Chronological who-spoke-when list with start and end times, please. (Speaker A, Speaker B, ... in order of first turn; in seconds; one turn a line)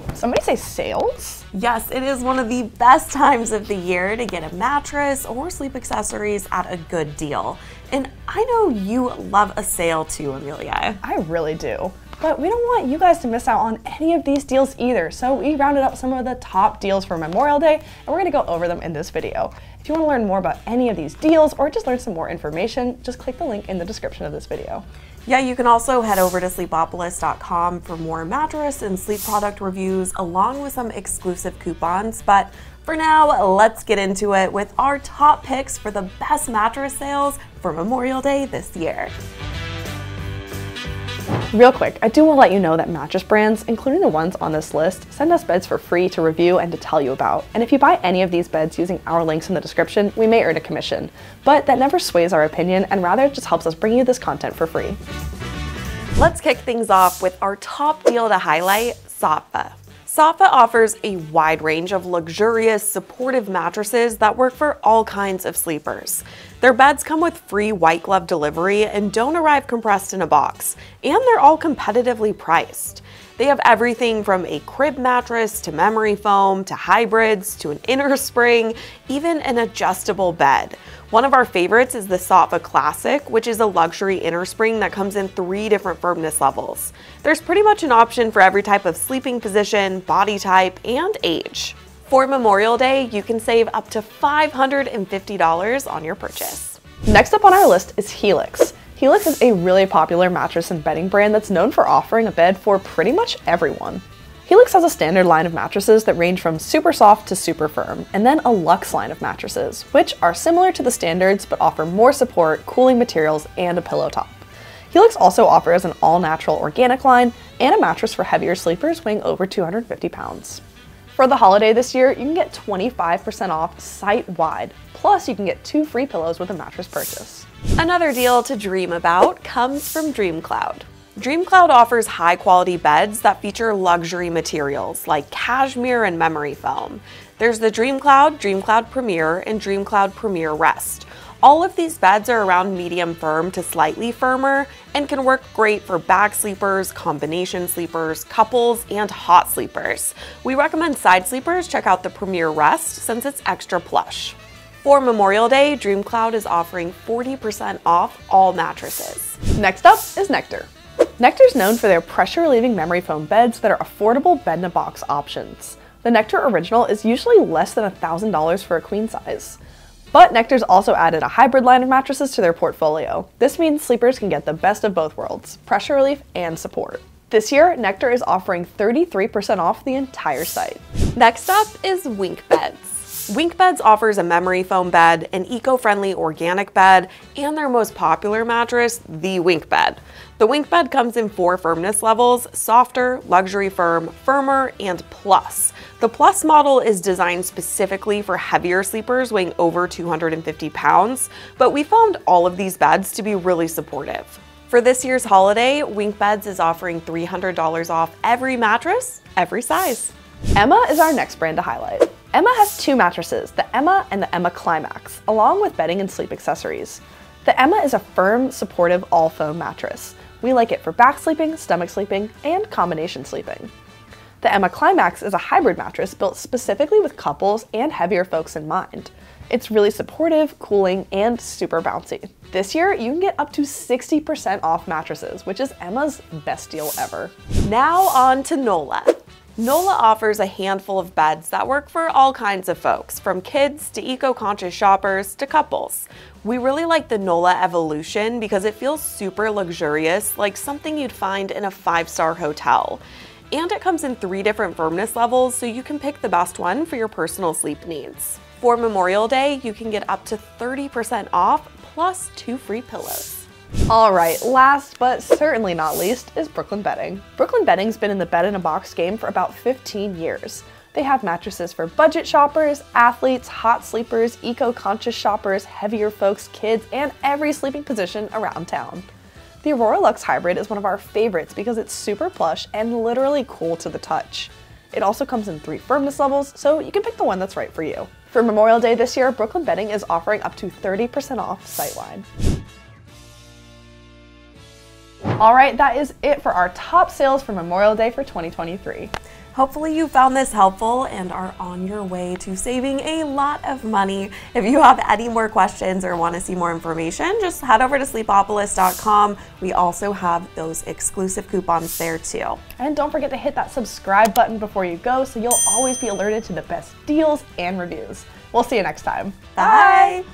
Speaker A: 0.1-1.4
Speaker B: 1.5-11.0
Speaker A: 11.0-24.8
Speaker B: 25.2-39.1
Speaker A: 41.5-55.0
Speaker B: 56.2-96.8
Speaker A: 97.0-120.6
Speaker A: 121.2-127.5
Speaker B: 127.8-159.4
Speaker A: 159.6-169.6
Speaker A: 170.1-180.8
Speaker B: 181.1-210.1
Speaker A: 210.6-223.7
Speaker A: 224.4-237.3
Speaker B: 237.6-263.5
Speaker A: 263.9-279.1
Speaker A: 279.6-292.2
Speaker A: 295.4-299.1
Speaker B: 299.5-312.6
Speaker A: 312.8-320.1
Speaker B: 319.6-320.2